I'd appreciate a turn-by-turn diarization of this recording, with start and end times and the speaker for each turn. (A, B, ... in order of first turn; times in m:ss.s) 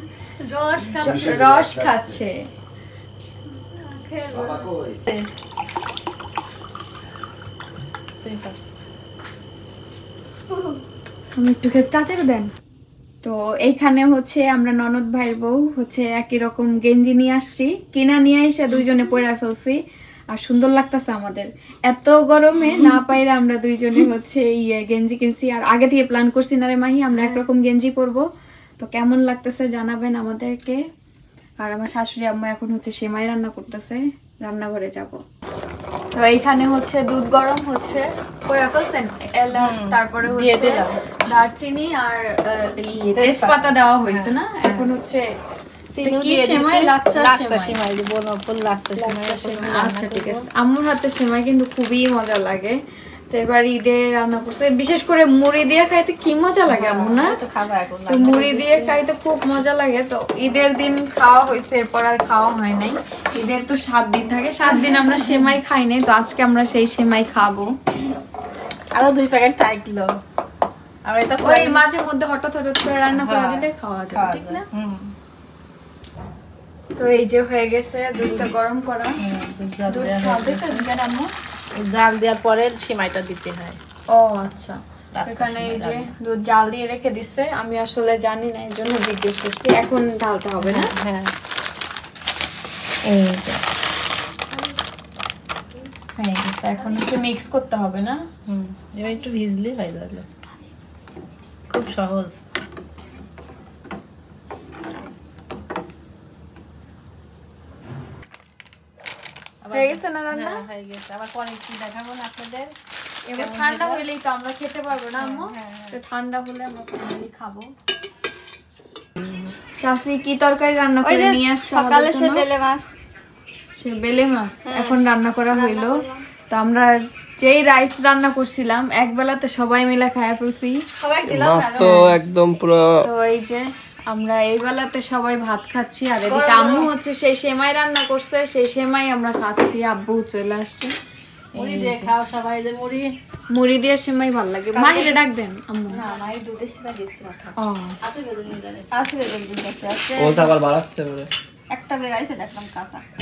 0:00.4-0:01.3 A
0:00.9-0:02.2 B
0:01.0-0:02.3 C
0:03.5-0:04.7 A
0:04.3-0:05.0 B
0:08.2-0:08.6 D
0:11.4-0:12.5 C
0:13.2-0:19.8 C
0:20.3-0:28.2 C
0:27.2-0:27.4 D
0:28.8-0:30.8 C
0:31.6-0:35.2 C
0:36.1-0:45.2 C
0:39.6-0:40.9 D
0:43.2-0:44.9 D
0:45.9-0:50.4 D
0:46.0-0:47.8 C
0:49.0-0:52.8 C
0:53.3-0:57.3 C
0:56.7-0:59.0 D
0:58.1-1:07.7 C
1:08.9-1:10.1 D
1:11.1-1:11.8 D
1:11.4-1:14.6 C
1:13.1-1:15.1 D
1:17.0-1:19.1 C
1:18.2-1:18.6 D
1:19.2-1:20.8 D
1:19.9-1:21.3 C
1:21.8-1:23.8 D
1:24.1-1:30.9 C
1:25.1-1:26.1 D
1:30.6-1:31.3 D
1:33.1-1:33.6 C
1:36.2-1:38.2 C
1:38.5-1:40.2 D
1:41.7-1:42.4 D
1:49.6-1:52.7 D
1:49.7-1:50.6 C
1:53.3-1:57.7 C
1:53.3-1:54.0 D
1:55.2-1:56.0 D
1:59.8-2:02.4 C
2:01.0-2:02.9 A
2:03.8-2:10.8 C
2:04.6-2:06.2 A
2:11.0-2:12.2 A
2:11.2-2:13.0 E
2:11.8-2:12.1 C
2:13.0-2:20.9 C
2:16.2-2:16.9 A
2:21.6-2:22.1 C
2:21.6-2:23.1 D
2:23.5-2:26.0 C
2:24.7-2:25.2 A
2:25.9-2:27.5 A
2:27.6-2:27.9 C
2:28.0-2:28.8 D
2:28.9-2:30.5 A
2:30.2-2:31.3 E
2:31.7-2:33.0 A